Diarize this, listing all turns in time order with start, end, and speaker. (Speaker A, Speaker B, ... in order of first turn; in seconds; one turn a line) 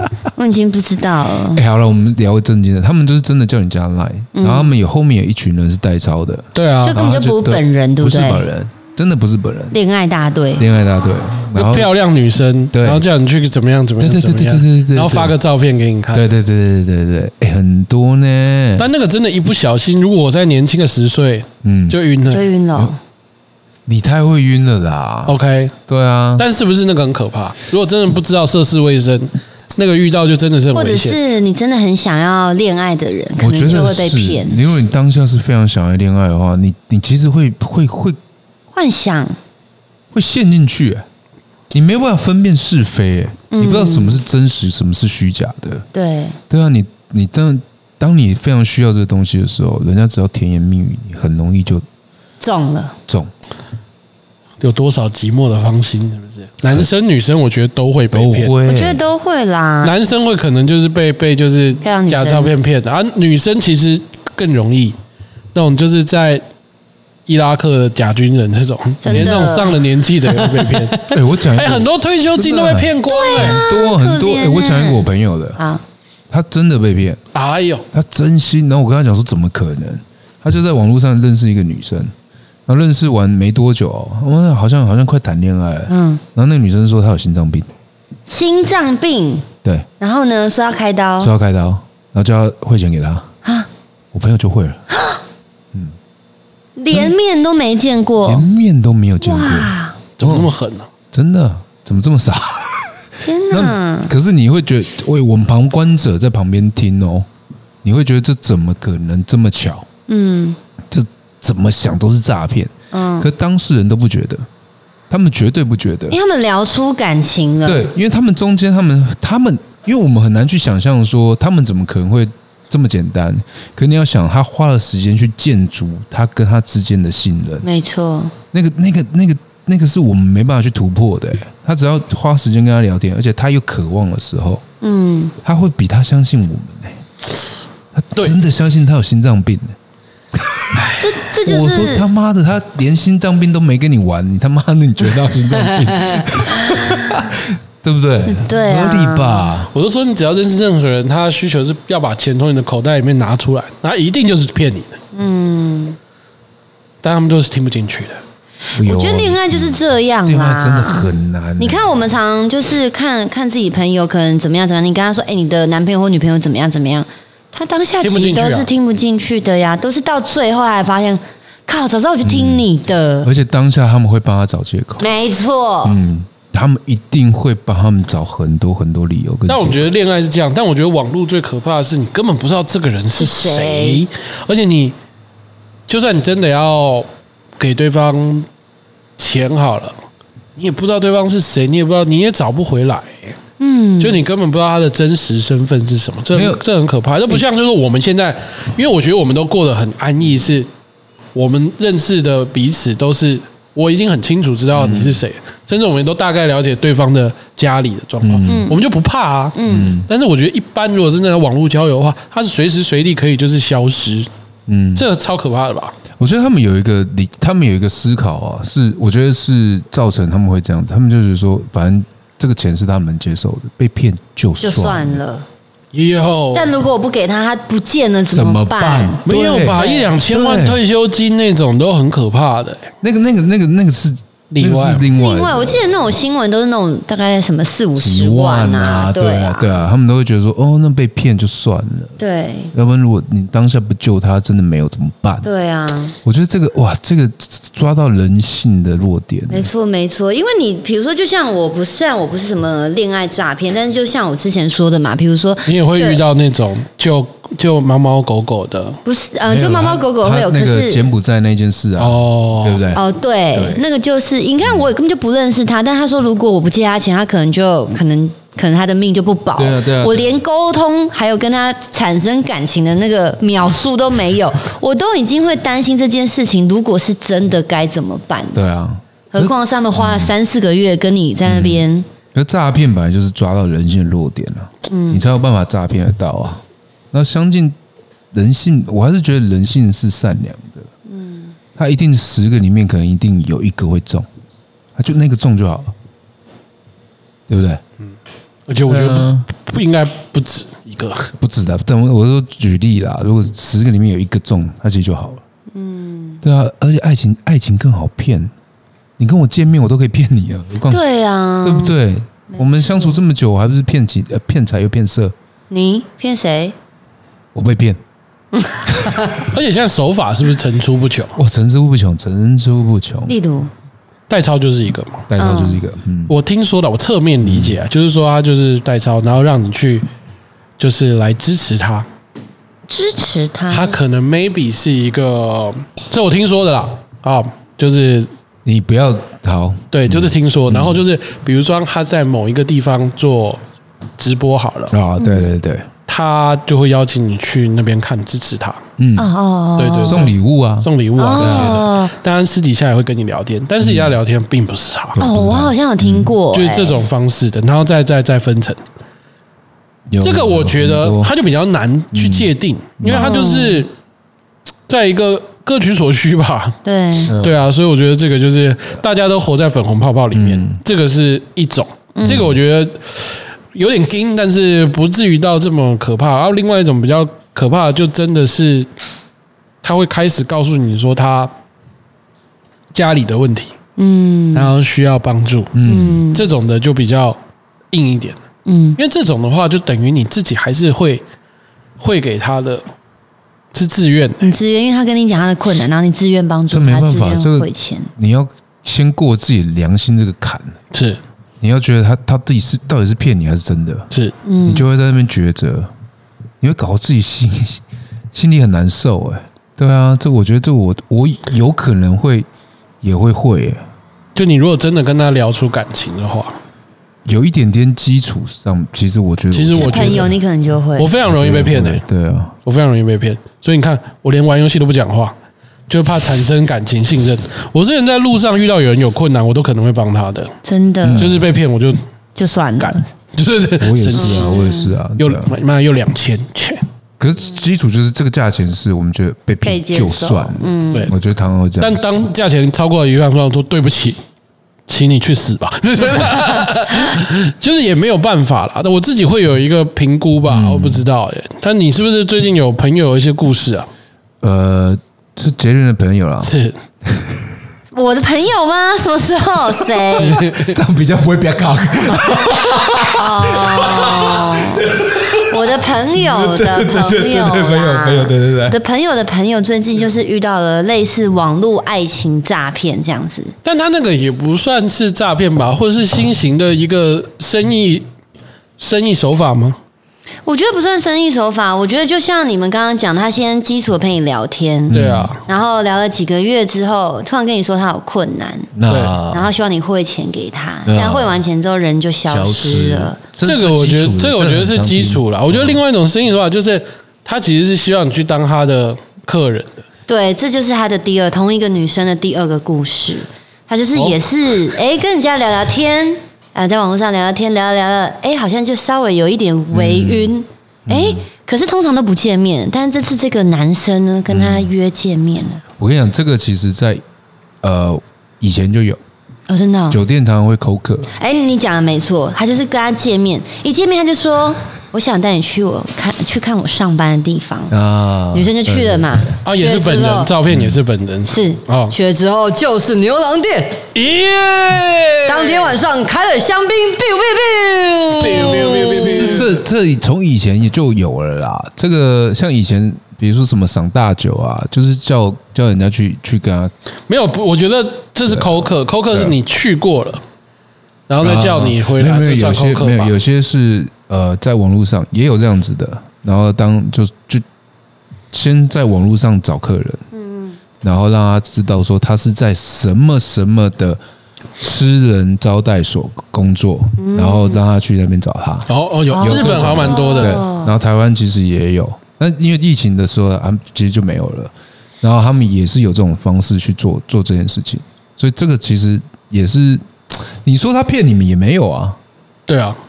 Speaker A: 0.3-1.6
Speaker B: 1.5-9.8
Speaker A: 4.3-4.7
Speaker C: 6.5-7.0
Speaker A: 6.8-8.5
Speaker A: 9.7-10.7
Speaker B: 10.6-11.9
Speaker C: 11.5-16.3
Speaker B: 12.7-13.1
Speaker B: 14.0-15.4
Speaker B: 16.1-18.9
Speaker C: 18.8-22.5
Speaker B: 21.6-22.0
Speaker A: 22.3-23.0
Speaker B: 23.9-26.4
Speaker C: 25.2-25.7
Speaker C: 26.4-31.2
Speaker A: 30.7-34.6
Speaker B: 33.4-38.2
Speaker A: 38.7-39.4
Speaker B: 40.1-41.0
Speaker B: 41.7-45.8
Speaker A: 43.5-44.2
Speaker A: 45.9-46.4
Speaker B: 46.5-51.8
Speaker A: 52.4-53.0
Speaker C: 54.6-58.5
Speaker B: 58.1-59.0
Speaker A: 58.6-59.9
Speaker C: 59.8-65.0
Speaker A: 61.8-62.5
Speaker C: 65.5-66.4
Speaker C: 67.3-73.6
Speaker A: 69.0-70.5
Speaker B: 69.1-69.4
Speaker B: 71.0-75.6
Speaker A: 73.1-75.8
Speaker B: 76.3-77.2
Speaker C: 77.3-77.8
Speaker B: 77.9-82.1
Speaker B: 82.7-87.7
Speaker A: 85.9-86.2
Speaker A: 88.3-89.5
Speaker B: 89.6-89.9
Speaker A: 90.0-91.3
Speaker B: 91.2-93.3
Speaker B: 94.1-94.8
Speaker A: 94.9-95.2
Speaker A: 96.8-98.5
Speaker B: 98.2-100.5
Speaker A: 99.2-100.0
Speaker C: 100.2-100.9
Speaker B: 101.1-107.3
Speaker A: 103.2-104.1
Speaker B: 107.8-109.9
Speaker A: 110.1-110.6
Speaker B: 110.9-114.5
Speaker A: 112.9-113.3
Speaker B: 115.1-116.2
Speaker A: 116.1-117.9
Speaker B: 117.6-127.7
Speaker A: 127.6-128.3
Speaker B: 128.5-134.6
Speaker A: 134.8-135.3
Speaker B: 135.4-137.0
Speaker B: 137.9-139.8
Speaker B: 140.3-149.7
Speaker A: 141.0-142.1
Speaker A: 146.1-147.2
Speaker A: 148.3-149.6
Speaker C: 149.7-155.0
Speaker A: 155.1-156.0
Speaker C: 157.0-158.2
Speaker A: 158.7-173.3
Speaker B: 158.8-162.0
Speaker C: 168.0-168.7
Speaker B: 172.2-172.7
Speaker B: 173.2-175.1
Speaker A: 175.0-176.0
Speaker B: 175.8-179.9
Speaker C: 179.5-184.9
Speaker A: 183.2-184.0
Speaker C: 185.9-187.1
Speaker C: 187.6-188.5
Speaker C: 189.2-190.0
Speaker C: 190.6-193.4
Speaker A: 193.6-194.2
Speaker C: 194.0-200.7
Speaker B: 196.3-196.6
Speaker C: 201.3-214.3
Speaker B: 204.7-205.2
Speaker B: 208.2-208.7
Speaker A: 208.4-208.8
Speaker A: 209.6-209.9
Speaker B: 209.7-210.1
Speaker B: 214.7-215.0
Speaker C: 214.9-215.9
Speaker B: 216.2-225.2
Speaker A: 224.6-225.4
Speaker C: 225.9-226.7
Speaker A: 226.5-230.1
Speaker B: 228.3-230.8
Speaker C: 229.2-232.9
Speaker B: 233.0-235.9
Speaker C: 234.5-235.1
Speaker A: 235.2-239.8
Speaker B: 238.0-242.2
Speaker A: 242.2-242.7
Speaker B: 242.7-245.5
Speaker A: 245.4-246.2
Speaker B: 246.2-249.7
Speaker A: 249.5-256.2
Speaker C: 255.7-259.0
Speaker A: 259.1-261.1
Speaker B: 259.4-263.0
Speaker C: 262.0-262.8
Speaker A: 262.9-278.6
Speaker B: 263.5-263.8
Speaker B: 264.6-264.9
Speaker B: 269.6-270.4
Speaker B: 278.5-280.3
Speaker A: 279.3-282.1
Speaker B: 281.4-287.8
Speaker A: 284.9-285.2
Speaker B: 288.3-290.9
Speaker A: 291.1-291.5
Speaker B: 291.8-294.3
Speaker B: 294.9-295.9
Speaker B: 297.5-297.8
Speaker C: 298.7-301.3
Speaker B: 298.9-299.5
Speaker B: 301.4-305.4
Speaker A: 305.7-306.4
Speaker B: 306.4-308.5
Speaker B: 309.2-311.0
Speaker A: 310.9-311.9
Speaker B: 311.6-315.3
Speaker A: 312.5-313.2
Speaker A: 315.7-316.7
Speaker B: 317.5-318.0
Speaker A: 318.5-319.4
Speaker B: 318.9-319.4
Speaker C: 319.5-321.4
Speaker B: 321.4-323.3
Speaker A: 323.3-323.7
Speaker C: 324.3-325.3
Speaker B: 325.3-326.3
Speaker A: 325.4-325.8
Speaker C: 326.3-330.1
Speaker B: 327.4-327.8
Speaker C: 330.8-332.1
Speaker A: 332.9-334.0
Speaker C: 333.7-338.3
Speaker B: 338.6-341.0
Speaker C: 339.9-343.6
Speaker C: 344.2-344.9
Speaker B: 344.9-345.9
Speaker A: 345.2-345.5
Speaker C: 346.1-348.8
Speaker B: 349.0-349.3
Speaker A: 349.1-350.3
Speaker C: 349.8-355.2
Speaker B: 350.0-351.9
Speaker A: 351.2-352.1
Speaker B: 353.8-354.1
Speaker B: 355.2-356.3
Speaker A: 355.2-357.0
Speaker C: 356.5-358.8
Speaker B: 360.1-361.3
Speaker C: 360.2-363.9
Speaker B: 362.1-363.4
Speaker A: 363.1-363.8
Speaker C: 364.9-378.9
Speaker A: 366.8-367.3
Speaker B: 367.3-367.5
Speaker B: 370.3-370.8
Speaker B: 372.2-372.5
Speaker C: 379.8-381.5
Speaker C: 382.9-383.7
Speaker A: 384.0-384.7
Speaker C: 384.5-387.4
Speaker B: 385.7-386.2
Speaker A: 385.8-386.4
Speaker C: 387.9-388.4
Speaker A: 388.6-389.0
Speaker C: 389.0-391.2
Speaker C: 392.0-392.8
Speaker C: 393.7-394.5
Speaker A: 394.4-398.1
Speaker B: 396.7-400.8
Speaker C: 400.9-401.2
Speaker B: 401.6-404.1
Speaker C: 404.1-404.4
Speaker A: 404.4-404.9
Speaker B: 404.6-405.9
Speaker B: 406.6-412.5
Speaker B: 413.0-413.8
Speaker C: 414.3-416.6
Speaker B: 417.2-420.4
Speaker C: 419.5-420.3
Speaker A: 419.7-421.1
Speaker C: 420.9-422.0
Speaker B: 421.2-422.6
Speaker C: 422.6-425.3
Speaker C: 425.9-430.5
Speaker A: 430.6-431.3
Speaker B: 431.0-431.4
Speaker C: 431.2-432.0
Speaker A: 432.4-433.1
Speaker C: 432.8-434.6
Speaker B: 433.8-435.5
Speaker A: 434.1-434.9
Speaker C: 435.2-436.8
Speaker B: 437.2-442.0
Speaker A: 439.6-441.1
Speaker C: 441.8-444.2
Speaker C: 444.9-453.9
Speaker B: 450.4-451.0
Speaker B: 454.4-456.5
Speaker C: 456.4-456.8
Speaker B: 457.1-457.5
Speaker A: 457.9-460.4
Speaker C: 460.2-460.8
Speaker B: 460.5-468.8
Speaker A: 462.5-473.5
Speaker C: 473.6-478.1
Speaker C: 478.8-479.8
Speaker A: 480.4-488.7
Speaker B: 484.9-485.3
Speaker C: 484.9-485.4
Speaker B: 488.7-489.5
Speaker C: 488.9-489.2
Speaker A: 489.3-493.2
Speaker B: 490.9-491.4
Speaker B: 492.3-495.8
Speaker C: 493.4-499.8
Speaker A: 500.1-515.6
Speaker B: 509.7-510.4
Speaker B: 510.9-511.2
Speaker B: 514.3-514.7
Speaker B: 515.8-517.0
Speaker B: 517.6-519.0
Speaker A: 519.5-520.0
Speaker B: 519.9-521.1
Speaker A: 521.1-527.8
Speaker B: 527.7-529.3
Speaker A: 528.3-530.3
Speaker C: 529.4-531.9
Speaker B: 530.5-530.8
Speaker A: 531.3-533.9
Speaker C: 533.9-535.7
Speaker A: 535.2-539.5
Speaker C: 538.1-539.6
Speaker B: 538.9-546.7
Speaker C: 547.1-550.2
Speaker B: 548.2-549.4
Speaker C: 551.1-553.1
Speaker B: 551.2-557.4
Speaker B: 558.3-560.0
Speaker A: 560.1-560.6
Speaker B: 560.8-564.0
Speaker B: 564.6-582.0
Speaker A: 567.0-567.6
Speaker C: 568.7-570.4
Speaker A: 569.1-570.7
Speaker C: 582.5-582.8